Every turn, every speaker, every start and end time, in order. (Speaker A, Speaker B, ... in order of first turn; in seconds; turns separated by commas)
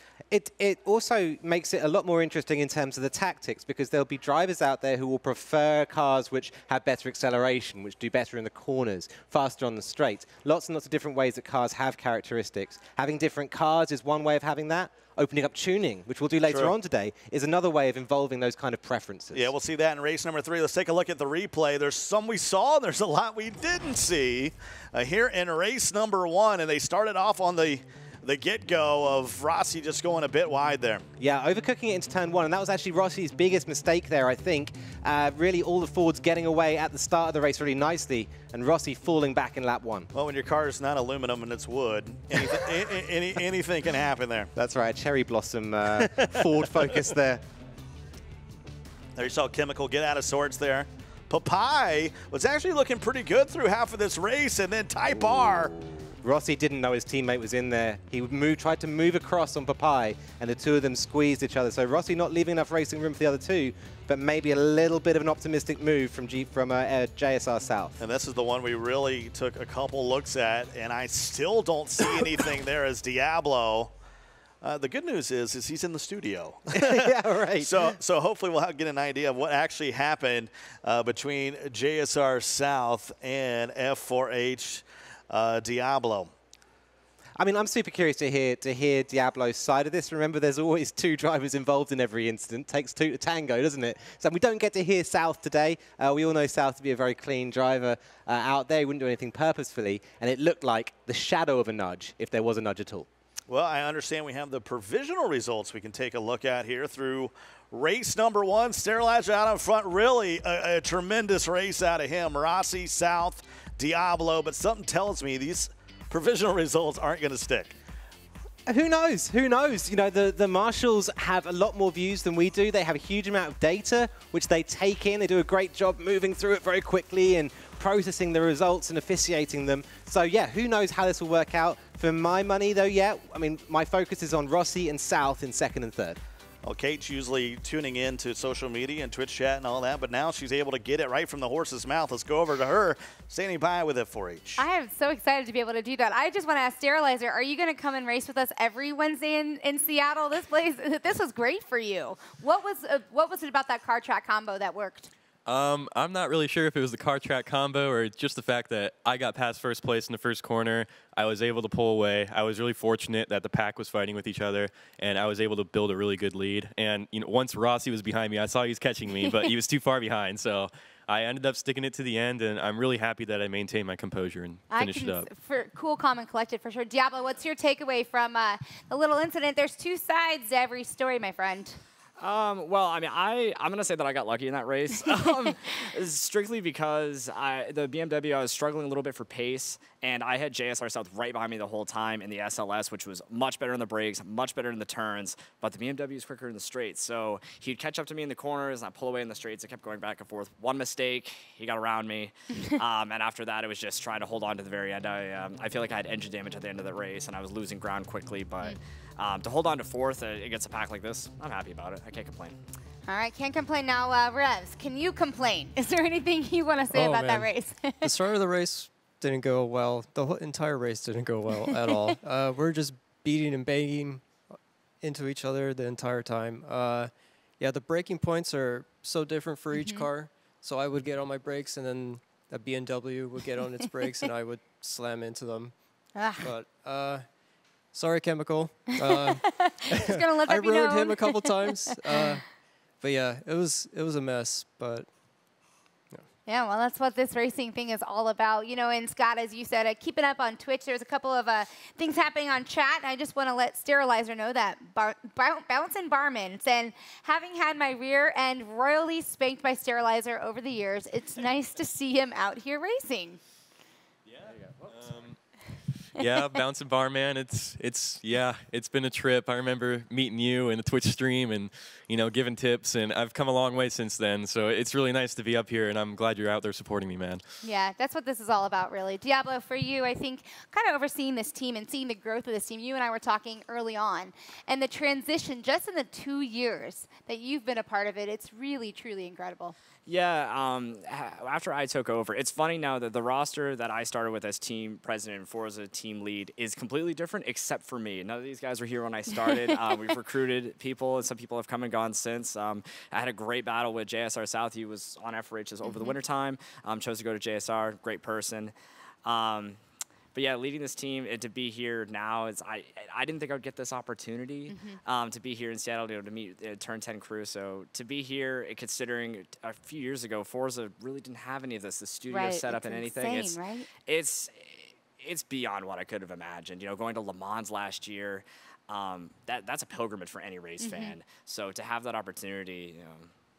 Speaker A: 0.3-19.5, Speaker B: 16.5-16.7, Speaker B: 19.3-31.1, Speaker A: 31.2-40.1, Speaker B: 40.1-44.5, Speaker A: 42.3-42.8, Speaker A: 44.5-47.4, Speaker B: 49.2-55.7, Speaker A: 55.1-68.0, Speaker B: 68.0-73.9, Speaker B: 74.6-86.3, Speaker A: 76.7-78.0, Speaker A: 87.4-103.1, Speaker B: 103.5-117.7, Speaker A: 118.7-136.2, Speaker B: 136.6-144.6, Speaker C: 144.6-155.1, Speaker D: 155.5-175.3, Speaker C: 169.2-169.5, Speaker C: 174.7-181.8, Speaker E: 182.2-212.6, Speaker C: 213.1-218.1, Speaker F: 216.9-224.3, Speaker F: 225.0-245.1, Speaker C: 229.7-230.1, Speaker C: 236.2-236.5, Speaker C: 239.4-241.6, Speaker C: 246.5-263.4, Speaker D: 264.3-265.4, Speaker D: 266.1-277.4, Speaker C: 277.6-289.8, Speaker E: 290.1-308.7, Speaker C: 305.8-306.2, Speaker E: 309.2-309.8, Speaker E: 310.3-333.3, Speaker C: 314.7-315.0, Speaker C: 322.3-323.9, Speaker C: 330.8-331.2